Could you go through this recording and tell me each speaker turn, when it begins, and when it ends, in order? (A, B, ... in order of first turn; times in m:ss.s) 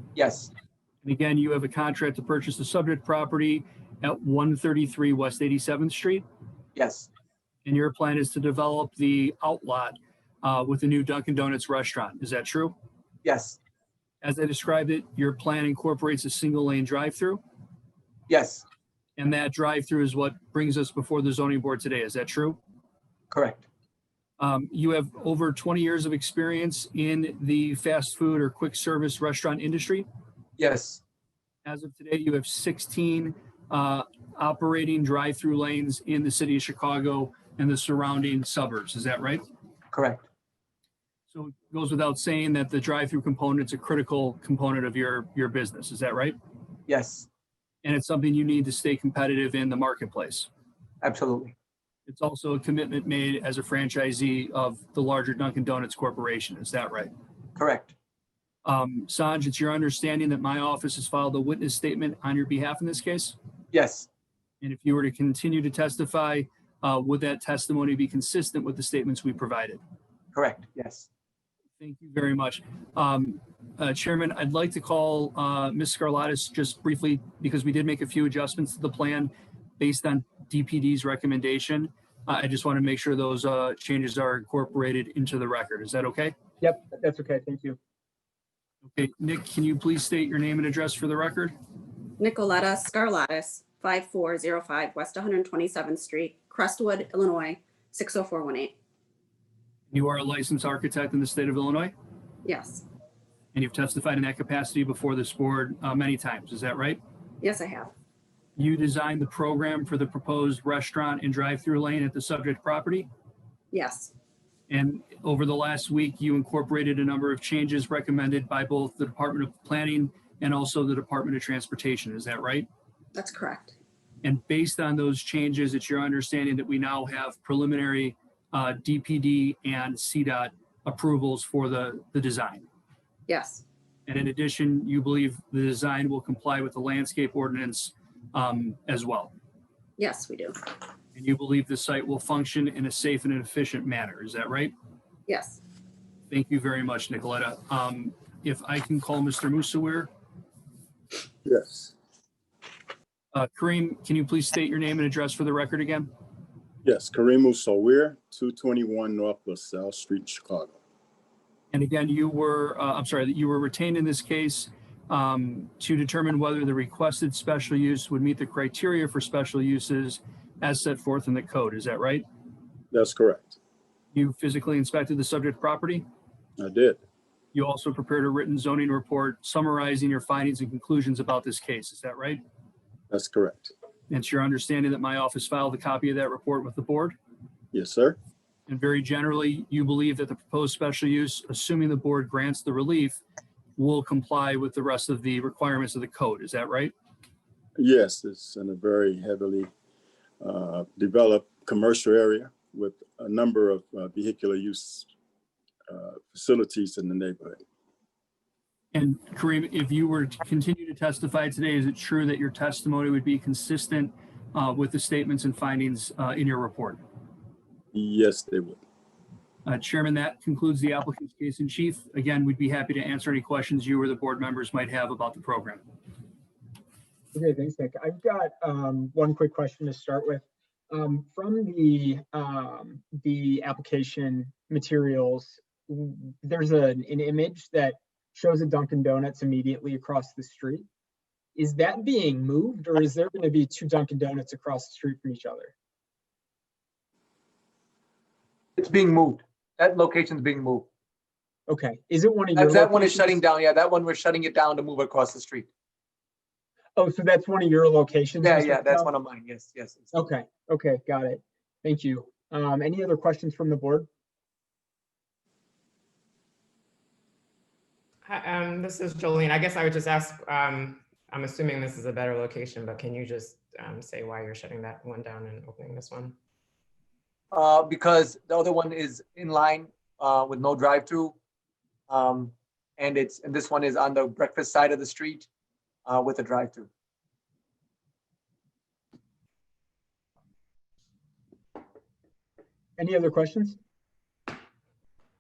0:00.2-0:00.5 A
0:01.0-0:06.2 B
0:06.8-0:07.1 A
0:07.6-0:12.7 B
0:13.2-0:13.6 A
0:14.2-0:17.4 B
0:18.3-0:18.6 A
0:19.2-0:22.6 B
0:23.3-0:23.7 A
0:24.4-0:30.0 B
0:30.6-0:31.0 A
0:31.6-0:39.4 B
0:39.9-0:40.2 A
0:41.3-0:46.4 B
0:46.9-0:47.3 A
0:47.8-0:50.5 B
0:51.0-0:51.5 A
0:52.1-0:57.1 B
0:57.6-0:57.9 A
0:58.6-1:03.4 B
1:03.7-1:04.1 A
1:04.6-1:09.8 B
1:10.3-1:11.1 A
1:11.8-1:26.3 B
1:26.6-1:27.8 C
1:28.9-1:31.5 B
1:32.2-1:38.8 D
1:39.9-1:41.9 B
1:42.4-1:42.8 D
1:43.5-1:47.0 B
1:47.4-1:47.9 D
1:48.6-1:53.1 B
1:53.7-1:54.1 D
1:54.7-2:02.7 B
2:03.1-2:03.8 D
2:04.2-2:12.7 B
2:13.3-2:13.6 D
2:14.1-2:19.3 B
2:20.0-2:20.7 D
2:21.2-2:24.7 B
2:25.3-2:25.6 D
2:26.3-2:30.1 B
2:31.4-2:31.9 E
2:33.3-2:36.1 B
2:36.8-2:40.8 E
2:41.7-2:52.2 B
2:52.9-2:53.6 E
2:54.1-2:56.0 B
2:56.6-2:57.0 E
2:57.5-3:02.4 B
3:03.1-3:03.7 E
3:04.1-3:07.2 B
3:07.7-3:08.2 E
3:08.7-3:13.2 B
3:13.8-3:16.9 B
3:17.8-3:19.7 E
3:20.4-3:25.1 E
3:25.9-3:27.6 E
3:28.9-3:37.0 B
3:37.9-3:38.8 E
3:39.7-3:45.8 B
3:47.3-4:00.8 C
4:01.6-4:05.7 C
4:08.8-4:10.9 A
4:11.7-4:13.4 C
4:12.5-4:15.7 A
4:17.0-4:19.1 C
4:18.4-4:20.1 A
4:20.1-4:24.1 C
4:28.2-4:36.4 F
4:37.5-4:41.4 A
4:42.1-4:45.5 A
4:46.1-4:46.9 A
4:53.0-4:53.8 C